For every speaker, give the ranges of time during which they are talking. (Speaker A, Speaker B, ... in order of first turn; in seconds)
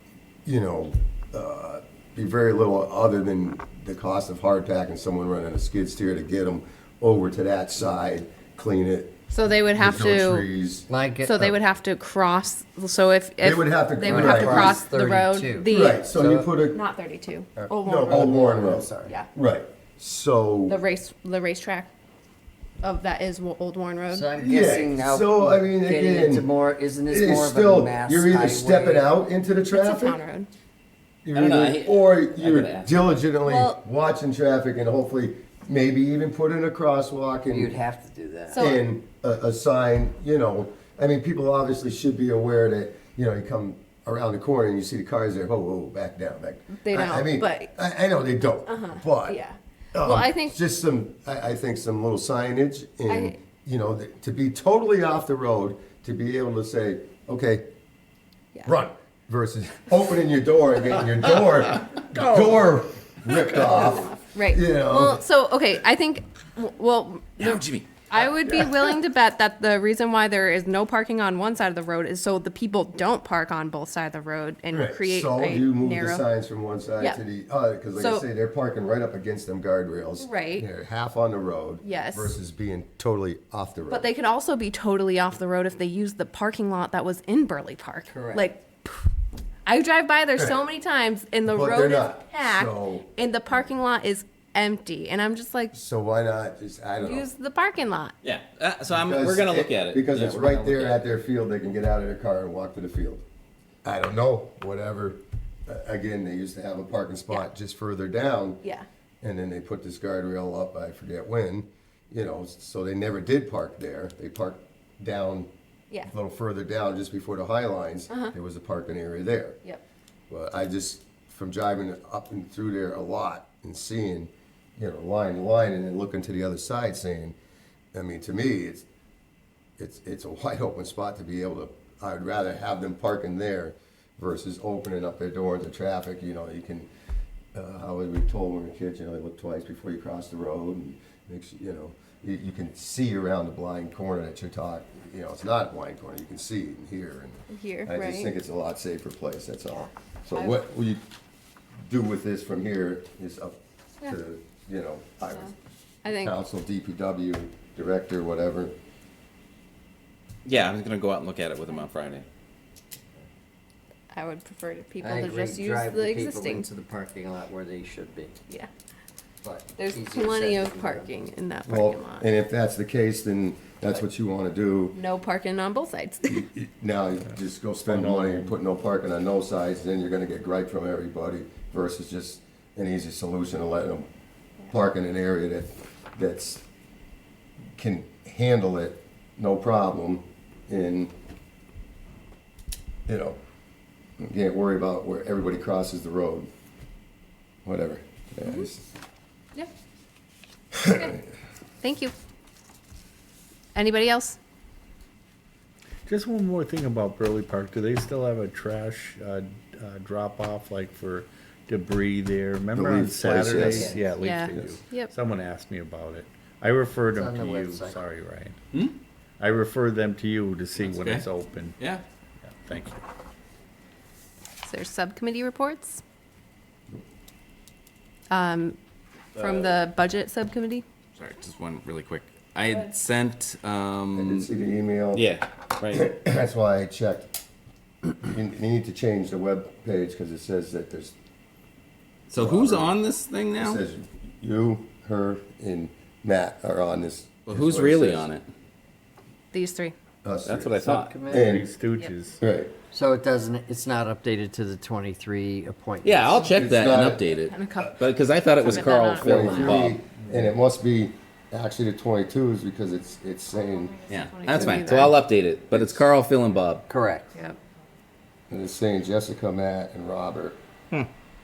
Speaker A: 0.5-9.2, 9.8-10.9, 13.4-14.8, 15.7-16.8, 17.8-20.8, 24.4-26.5, 27.1-30.2, 31.2-37.7, 38.6-49.4, 49.9-57.7, 58.6-65.2, 68.2-68.7, 74.7-84.1, 91.5-93.1, 95.7-97.3, 98.9-103.2, 103.8-108.6, 109.2-115.5, 116.0-119.6, 120.3-127.4, 127.9-128.9, 129.8-136.9, 137.5-151.0, 151.8-155.5, 156.1-158.8, 171.7-175.0, 176.3-184.1, 184.7-186.6, 187.8-191.1, 193.1-193.4, 194.2-196.5, 197.7-198.9, 212.7-214.0, 214.5-214.8, 234.2-235.2, 235.9-237.3, 238.2-241.2, 242.3-242.9, 243.6-248.3, 250.2-251.7, 252.4-252.7, 256.5-257.3, 259.2-264.0, 264.5-265.1, 265.7-266.1, 268.5-270.6
Speaker B: 9.3-10.5, 11.2-16.0, 16.7-18.4, 20.7-21.9, 22.8-24.3, 29.7-30.5, 33.5-33.8, 38.5-38.8, 46.8-47.7, 48.7-50.6, 53.1-53.4, 64.1-76.2, 78.0-78.2, 80.2-80.7, 81.8-82.3, 83.9-89.1, 89.7-95.7, 97.0-98.2, 147.5-148.3, 150.3-150.6, 156.0-156.4, 164.1-166.7, 169.8-172.3, 174.9-176.4, 200.8-201.2, 201.8-202.1, 203.8-204.4, 214.2-215.1, 224.6-226.0, 228.3-228.8, 229.4-230.8, 249.5-249.9, 257.4-259.8, 263.5-265.2
Speaker C: 10.9-11.5, 14.0-16.5, 17.6-19.1, 24.1-29.1, 37.5-38.7, 88.1-88.5, 165.0-168.4, 169.4-171.1, 213.5-214.0, 217.1-218.0, 250.8-251.6, 252.9-256.6, 266.9-267.3
Speaker D: 31.3-32.9, 62.1-62.5, 67.4-68.0, 98.2-101.0, 160.4-162.2, 220.8-221.3, 229.4-229.7, 231.2-234.5, 235.1-236.2, 242.3-243.8, 247.5-248.5, 250.5-251.2, 256.0-260.0, 264.1-266.9
Speaker E: 177.9-178.6, 206.1-218.6, 219.4-221.8, 222.5-223.0, 251.2-252.4, 260.2-260.5